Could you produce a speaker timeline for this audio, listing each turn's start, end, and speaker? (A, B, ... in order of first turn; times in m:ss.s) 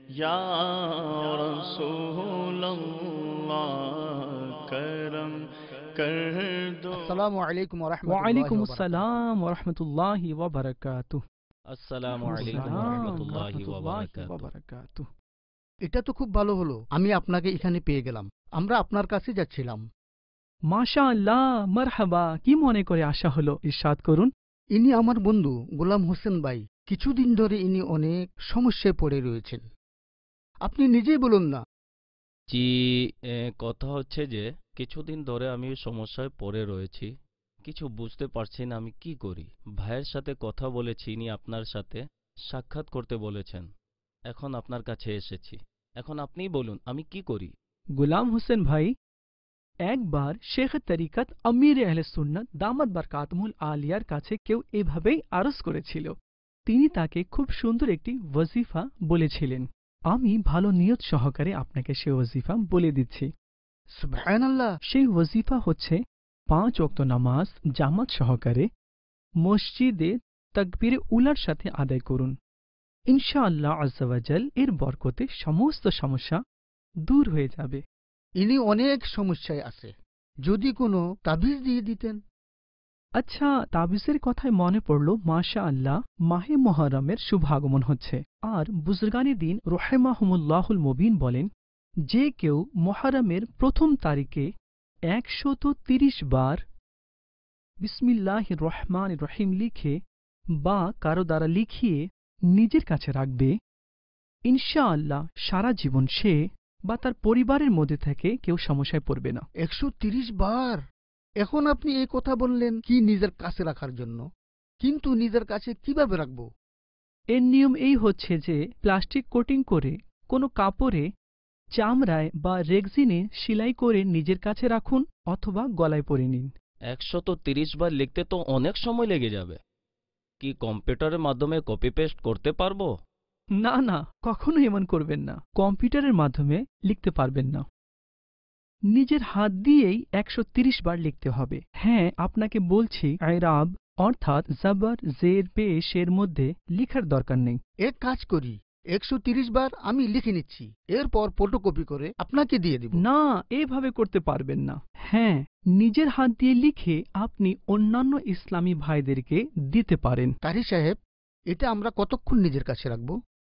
0:00.2-0:05.4 A
0:06.0-0:07.0 A
0:06.9-0:09.1 B
0:08.1-0:11.2 C
0:11.7-0:14.5 D
0:12.2-0:15.1 C
0:12.2-0:13.3 B
0:15.9-0:19.8 B
0:20.7-0:24.3 C
0:24.8-0:29.6 B
0:30.7-0:31.6 B
0:32.5-0:37.1 D
0:37.7-0:43.7 D
0:44.3-0:47.5 D
0:48.0-0:48.9 C
0:49.9-0:56.1 C
0:56.7-1:03.3 C
1:04.0-1:04.7 B
1:04.9-1:06.0 C
1:06.5-1:08.7 C
1:09.4-1:12.3 C
1:13.1-1:16.4 C
1:17.1-1:17.8 C
1:18.4-1:19.9 B
1:20.5-1:22.2 B
1:23.2-1:31.5 C
1:32.1-1:34.5 C
1:35.1-1:36.6 C
1:37.8-1:40.0 C
1:40.6-1:42.0 C
1:42.5-1:43.5 C
1:44.5-1:46.4 C
1:46.9-1:49.4 C
1:49.6-1:50.8 B
1:51.4-1:54.2 B
1:54.8-1:56.4 B
1:57.3-2:01.1 C
2:01.8-2:06.5 C
2:06.9-2:09.6 D
2:10.4-2:12.9 D
2:13.6-2:17.6 C
2:18.9-2:27.6 C
2:27.9-2:33.0 B
2:33.0-2:40.3 C
2:40.4-2:40.9 B
2:41.5-2:43.2 B